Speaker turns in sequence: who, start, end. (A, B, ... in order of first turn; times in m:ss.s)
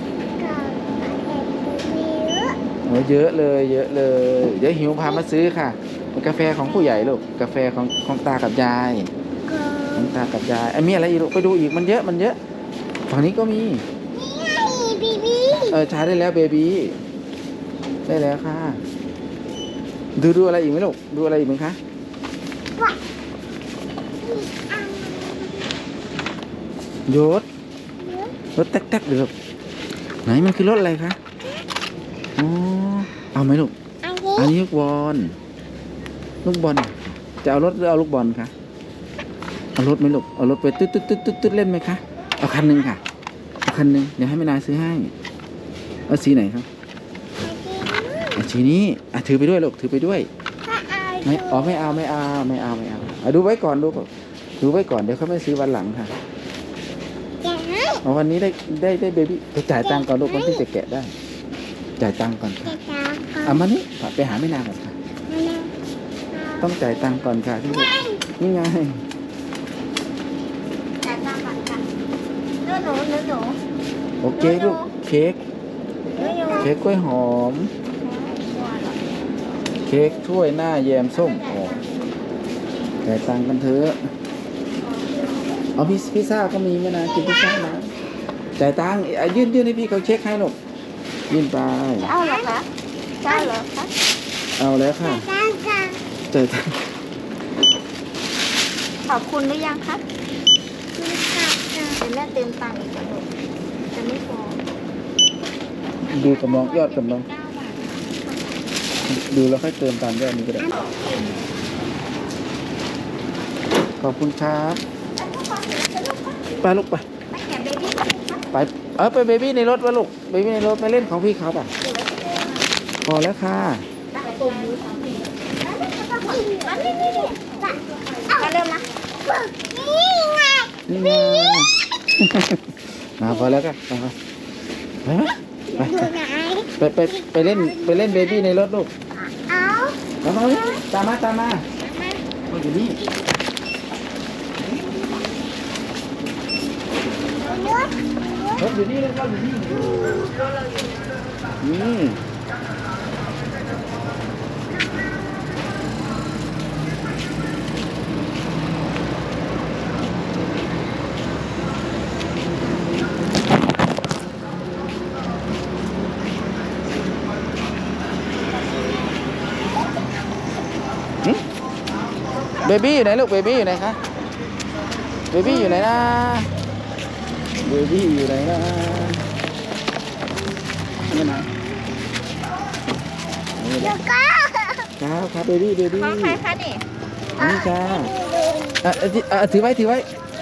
0:00.4-0:02.6 A
0:02.8-0:09.1 B
0:09.4-0:10.2 A
0:10.0-0:12.4 B
0:13.1-0:13.8 B
0:14.1-0:15.8 A
0:15.6-0:17.0 B
0:18.0-0:18.8 B
0:20.2-0:21.8 B
0:24.2-0:25.7 A
0:27.1-0:27.5 B
0:28.0-0:28.3 A
0:28.6-0:29.3 B
0:30.2-0:31.2 B
0:32.4-0:33.7 B
0:34.0-0:34.5 A
0:34.3-0:35.4 B
0:36.4-0:38.5 B
0:39.8-0:43.0 B
0:43.6-0:45.1 B
0:46.1-0:46.7 B
0:47.4-0:48.4 A
0:48.4-0:50.3 B
0:50.6-0:51.8 A
0:51.2-0:54.1 B
0:54.6-0:56.1 B
0:57.4-0:58.0 A
0:58.0-1:01.1 B
0:59.8-1:00.6 A
1:02.0-1:02.8 B
1:02.7-1:03.6 A
1:03.4-1:05.0 B
1:05.3-1:05.7 A
1:06.3-1:07.2 A
1:06.6-1:09.0 B
1:07.7-1:08.2 A
1:11.0-1:11.8 C
1:12.6-1:13.6 C
1:14.2-1:15.4 B
1:14.4-1:14.9 C
1:16.2-1:16.7 C
1:16.2-1:16.5 A
1:16.6-1:17.7 B
1:17.9-1:19.0 C
1:19.8-1:21.8 B
1:23.0-1:24.0 B
1:25.8-1:27.9 B
1:28.6-1:30.6 B
1:31.3-1:32.1 B
1:32.0-1:32.7 C
1:32.2-1:32.5 A
1:33.2-1:33.9 C
1:33.2-1:33.5 A
1:34.6-1:35.3 B
1:35.0-1:36.0 A
1:36.3-1:36.8 B
1:39.0-1:40.0 C
1:40.9-1:42.0 A
1:42.0-1:43.3 C
1:43.9-1:44.6 C
1:46.1-1:48.2 C
1:46.1-1:47.2 B
1:49.1-1:50.7 B
1:50.7-1:51.4 C
1:54.0-1:54.8 B
1:55.2-1:56.6 C
1:56.6-1:57.0 B
1:57.3-1:58.4 C
1:58.5-2:01.7 B
2:01.8-2:02.6 C
2:03.0-2:03.8 B
2:04.1-2:09.0 C
2:06.3-2:07.7 A
2:08.3-2:11.6 A
2:10.9-2:14.1 B
2:15.0-2:16.1 B
2:15.8-2:18.2 A
2:16.8-2:18.9 B
2:19.2-2:20.0 A
2:20.2-2:21.6 B
2:22.5-2:23.0 B
2:27.4-2:28.6 A
2:28.6-2:30.3 B
2:29.7-2:30.2 A
2:31.6-2:32.2 B
2:52.6-2:54.0 B
2:55.3-2:56.5 B
2:57.6-2:59.2 B
3:01.1-3:01.5 B
3:03.6-3:04.0 B
3:03.8-3:04.9 A
3:05.0-3:06.4 B
3:05.9-3:06.8 C
3:07.4-3:08.1 B
3:07.4-3:08.8 A
3:08.8-3:10.1 B